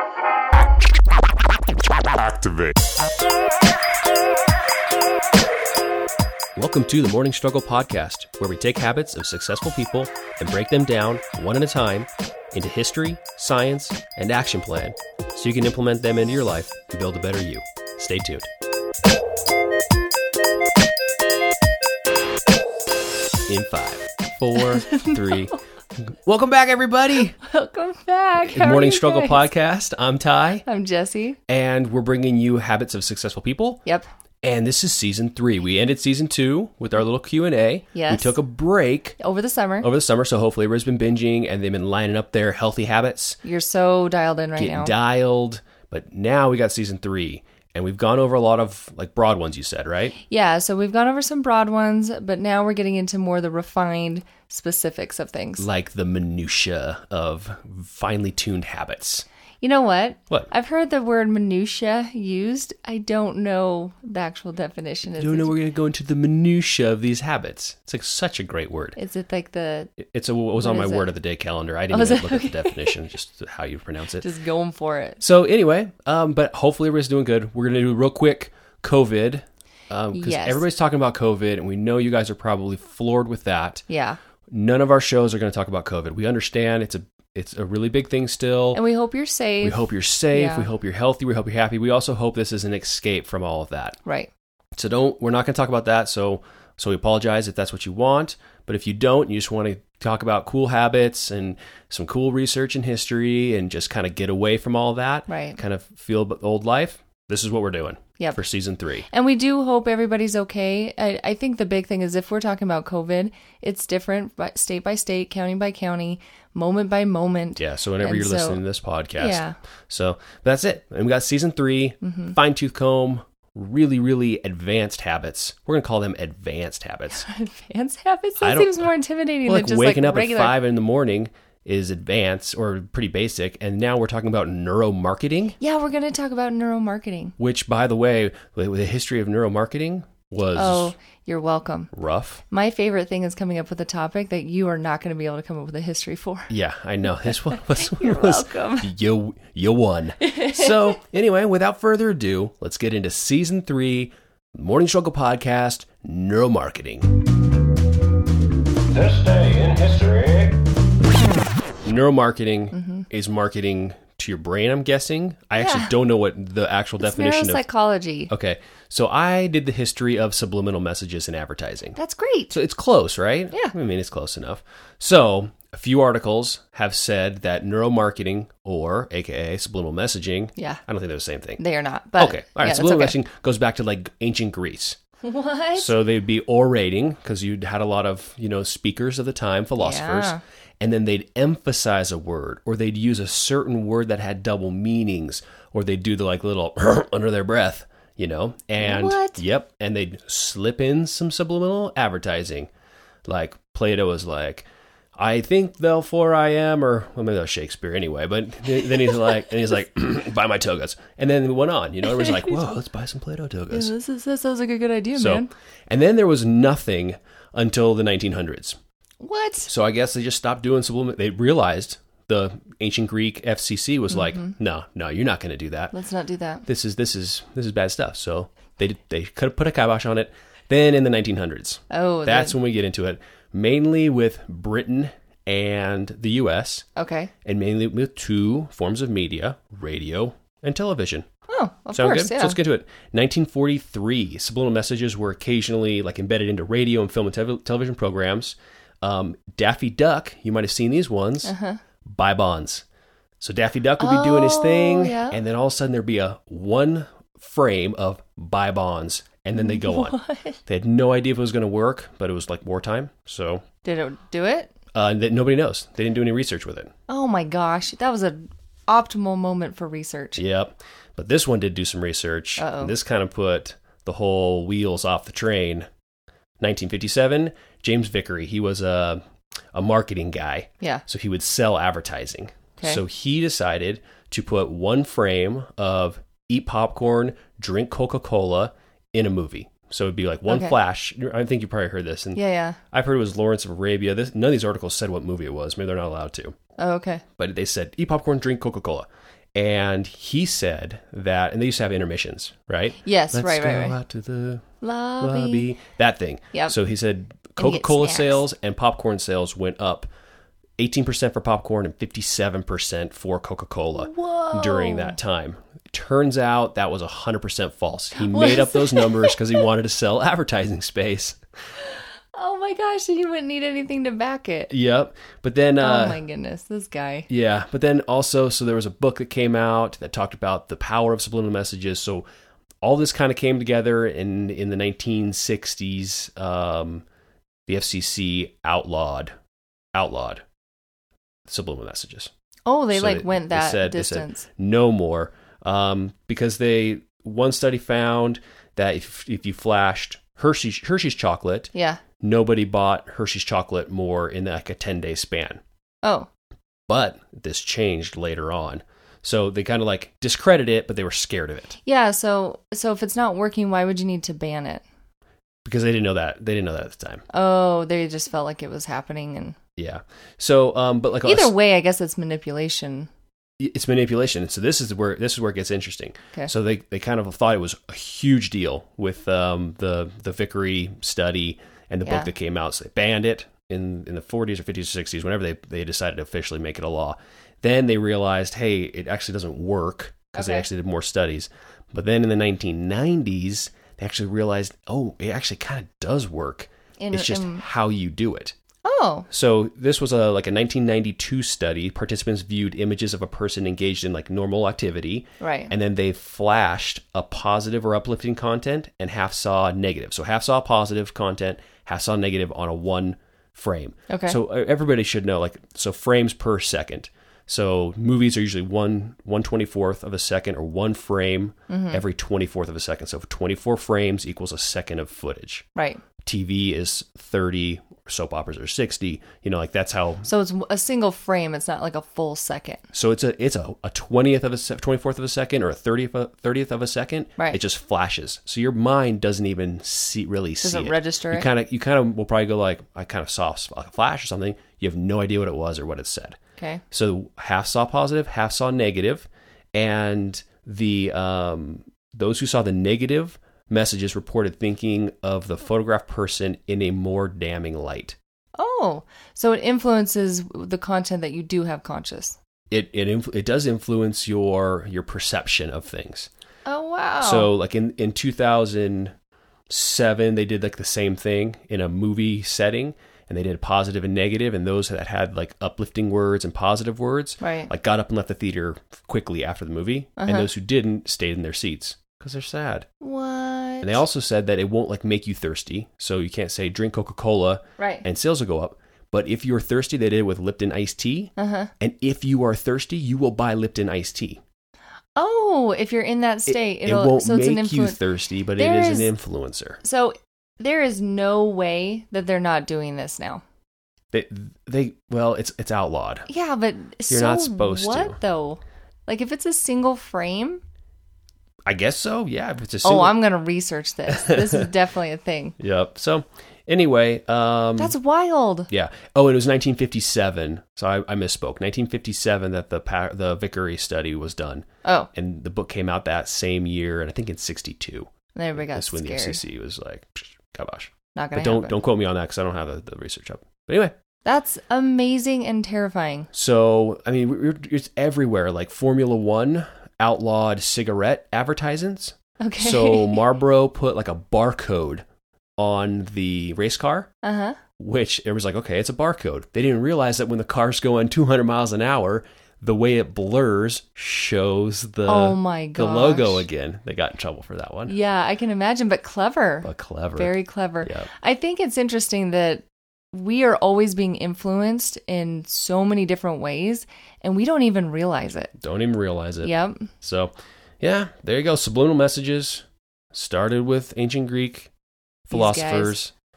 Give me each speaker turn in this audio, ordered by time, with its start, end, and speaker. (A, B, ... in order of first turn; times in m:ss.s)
0:06.6-0:18.5 A
0:23.5-0:27.4 A
0:24.5-0:25.4 B
0:27.4-0:29.4 B
0:28.4-0:30.6 A
0:30.6-0:31.4 B
0:31.5-0:33.8 A
0:34.4-0:39.2 A
0:37.9-0:38.3 B
0:39.2-0:39.9 B
0:39.8-0:43.4 A
0:43.4-0:44.9 B
0:44.6-0:50.2 A
0:50.3-0:55.6 B
0:55.6-0:59.2 A
0:59.6-1:05.5 B
1:05.1-1:09.0 A
1:09.0-1:10.0 B
1:10.0-1:14.3 A
1:10.6-1:11.1 B
1:11.9-1:12.9 B
1:14.2-1:15.2 B
1:15.2-1:23.8 A
1:20.1-1:20.6 B
1:23.9-1:24.2 B
1:24.5-1:28.8 A
1:28.7-1:30.7 B
1:29.6-1:34.0 A
1:34.0-1:34.3 B
1:34.8-1:49.1 A
1:45.3-1:45.6 B
1:49.1-1:58.6 B
1:57.6-2:07.2 A
1:59.2-1:59.6 B
2:02.0-2:02.4 B
2:07.1-2:10.6 B
2:08.4-2:08.9 A
2:09.4-2:15.6 A
2:15.6-2:17.4 B
2:17.4-2:20.9 A
2:20.5-2:21.9 B
2:21.9-2:22.4 A
2:22.5-2:26.5 B
2:26.5-2:37.1 A
2:27.2-2:28.9 B
2:30.3-2:30.9 B
2:39.0-2:40.1 A
2:41.8-2:47.6 A
2:42.7-2:43.0 B
2:45.6-2:45.9 B
2:47.0-2:48.3 B
2:48.3-2:52.0 A
2:52.0-2:52.6 B
2:52.5-3:01.6 A
3:00.6-3:00.8 B
3:01.6-3:03.2 B
3:02.2-3:05.0 A
3:05.2-3:05.9 B
3:05.8-3:22.7 A
3:09.8-3:10.4 B
3:18.8-3:19.4 B
3:23.2-3:33.9 A
3:32.1-3:32.6 B
3:33.7-3:35.5 B
3:35.1-3:38.8 A
3:39.2-3:39.7 B
3:39.6-3:45.9 A
3:44.1-3:44.5 B
3:45.9-3:46.6 B
3:46.6-3:56.8 A
3:51.9-3:52.6 B
3:57.0-3:57.3 B
3:57.4-4:01.2 A
4:01.5-4:02.6 B
4:01.9-4:12.8 A
4:11.4-4:11.8 B
4:13.4-4:23.6 A
4:14.0-4:15.4 B
4:19.6-4:20.6 B
4:23.8-4:24.7 B
4:24.9-4:26.9 A
4:27.1-4:30.4 B
4:30.4-4:35.9 A
4:32.6-4:32.9 B
4:36.6-4:39.2 A
4:39.7-4:56.6 A
4:50.5-4:50.7 B
4:52.3-4:52.8 B
4:56.8-4:57.2 B
4:57.4-5:10.1 A
5:03.0-5:04.0 B
5:04.8-5:05.7 B
5:07.6-5:08.4 B
5:10.8-5:21.4 A
5:14.0-5:15.2 B
5:18.1-5:19.4 B
5:22.3-5:24.7 B
5:24.7-5:26.2 A
5:25.8-5:27.3 B
5:27.3-5:32.2 A
5:32.8-5:37.0 A
5:37.7-5:39.3 A
5:39.9-5:40.4 A
5:41.5-5:42.3 A
5:42.7-5:44.4 B
5:42.9-5:55.6 A
5:51.7-5:52.0 B
5:56.0-5:56.3 B
5:56.9-6:01.8 A
6:01.8-6:04.8 B
6:05.6-6:07.2 A
6:07.3-6:09.6 B
6:09.8-6:11.5 A
6:11.2-6:13.1 B
6:13.6-6:38.5 A
6:22.0-6:22.3 B
6:30.3-6:30.7 B
6:37.0-6:37.6 B
6:38.8-6:39.3 B
6:39.3-7:05.6 A
6:45.4-6:45.7 B
6:54.1-6:54.4 B
7:01.7-7:02.0 B
7:05.7-7:06.0 B
7:06.2-7:10.3 A
7:10.2-7:12.8 B
7:12.9-7:26.4 A
7:20.6-7:21.5 B
7:26.9-7:38.2 A
7:38.6-7:42.4 B
7:42.7-7:46.3 A
7:46.6-7:47.5 B
7:47.2-7:49.1 A
7:49.7-8:02.9 A
7:57.4-7:57.7 B
8:00.2-8:00.5 B
8:03.0-8:04.0 B
8:03.8-8:14.4 A
8:07.8-8:08.0 B
8:11.4-8:11.7 B
8:15.2-8:18.0 B
8:16.5-8:19.8 A
8:18.6-8:19.1 B
8:19.8-8:23.4 B
8:24.1-8:26.3 A
8:26.3-8:30.6 B
8:27.1-8:28.2 A
8:31.6-8:33.2 A
8:32.8-8:35.6 B
8:34.1-8:34.7 A
8:35.6-8:37.9 A
8:37.8-8:38.7 B
8:38.7-8:53.9 A
8:44.8-8:45.1 B
8:48.3-8:49.4 B
8:51.1-8:51.8 B
8:54.2-8:56.3 B
8:56.3-9:05.0 A
9:02.4-9:03.2 B
9:05.6-9:07.1 A
9:07.2-9:07.6 B
9:07.8-9:18.0 A
9:15.0-9:16.4 B
9:17.9-9:28.5 B
9:19.6-9:21.1 A
9:28.6-9:34.7 A
9:29.4-9:29.9 B
9:35.3-9:36.1 A
9:35.3-9:36.0 B